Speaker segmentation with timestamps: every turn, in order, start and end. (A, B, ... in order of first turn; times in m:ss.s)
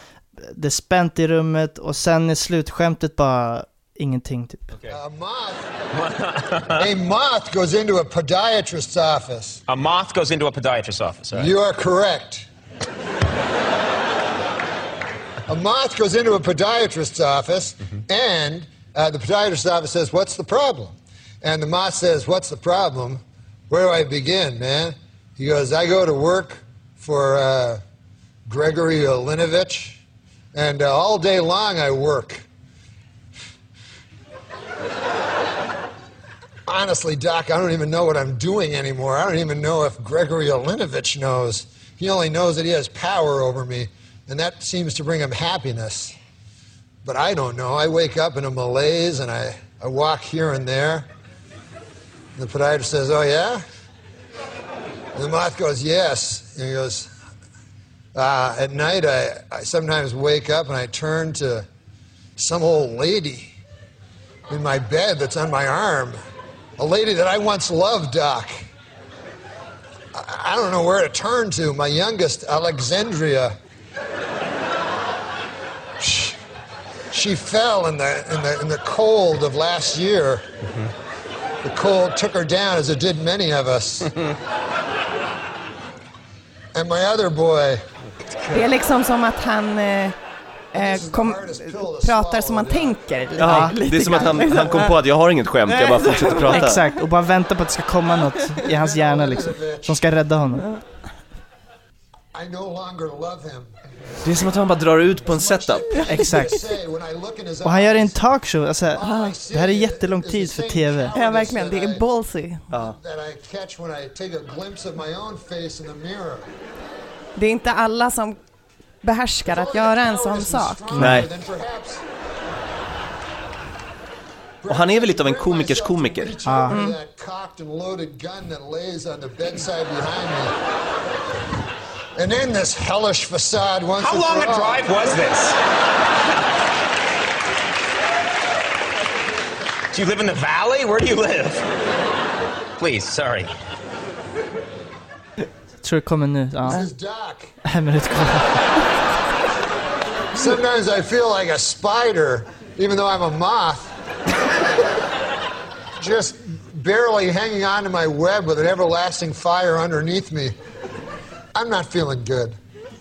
0:00.4-0:04.7 A
0:04.9-0:05.6 B
0:06.0-0:06.8 C
0:06.7-0:09.6 B
0:09.7-0:11.5 C
0:11.3-0:12.5 B
0:15.5-0:27.8 B
0:28.5-0:30.0 B
0:30.5-0:32.5 B
0:36.7-0:46.1 B
0:47.0-0:51.1 B
0:52.4-0:53.6 B
0:55.2-0:57.1 B
0:58.2-1:01.7 B
1:02.4-1:03.5 B
1:04.5-1:06.2 B
1:06.8-1:08.6 B
1:10.1-1:13.6 B
1:16.0-1:16.4 B
1:17.1-1:20.4 B
1:21.6-1:24.1 B
1:26.7-1:27.8 B
1:28.5-1:30.2 D
1:30.7-1:35.0 D
1:30.8-1:33.0 B
1:33.4-1:36.8 E
1:33.5-1:33.8 A
1:34.4-1:34.9 B
1:35.7-1:36.7 D
1:36.5-1:40.6 A
1:38.7-1:40.0 B
1:42.3-1:43.7 B
1:44.2-1:46.0 E
1:45.3-1:48.2 B
1:46.1-1:46.6 A
1:47.6-1:51.1 A
1:49.0-1:52.0 B
1:49.0-1:49.3 D
1:51.1-1:52.6 D
1:52.7-1:56.5 B
1:57.4-1:58.4 D
1:59.0-2:01.0 D
1:59.5-2:02.0 B
2:00.9-2:01.3 A
2:01.0-2:01.3 E
2:04.6-2:10.5 B
2:04.7-2:06.3 E
2:06.5-2:06.8 A
2:06.7-2:07.0 D
2:12.2-2:15.2 B
2:14.0-2:15.6 C
2:19.9-2:21.6 C
2:22.8-2:23.5 C
2:25.8-2:26.9 A
2:26.6-2:27.5 B
2:27.6-2:28.7 A
2:30.3-2:33.9 B
2:36.0-2:40.5 B
2:41.5-2:42.6 B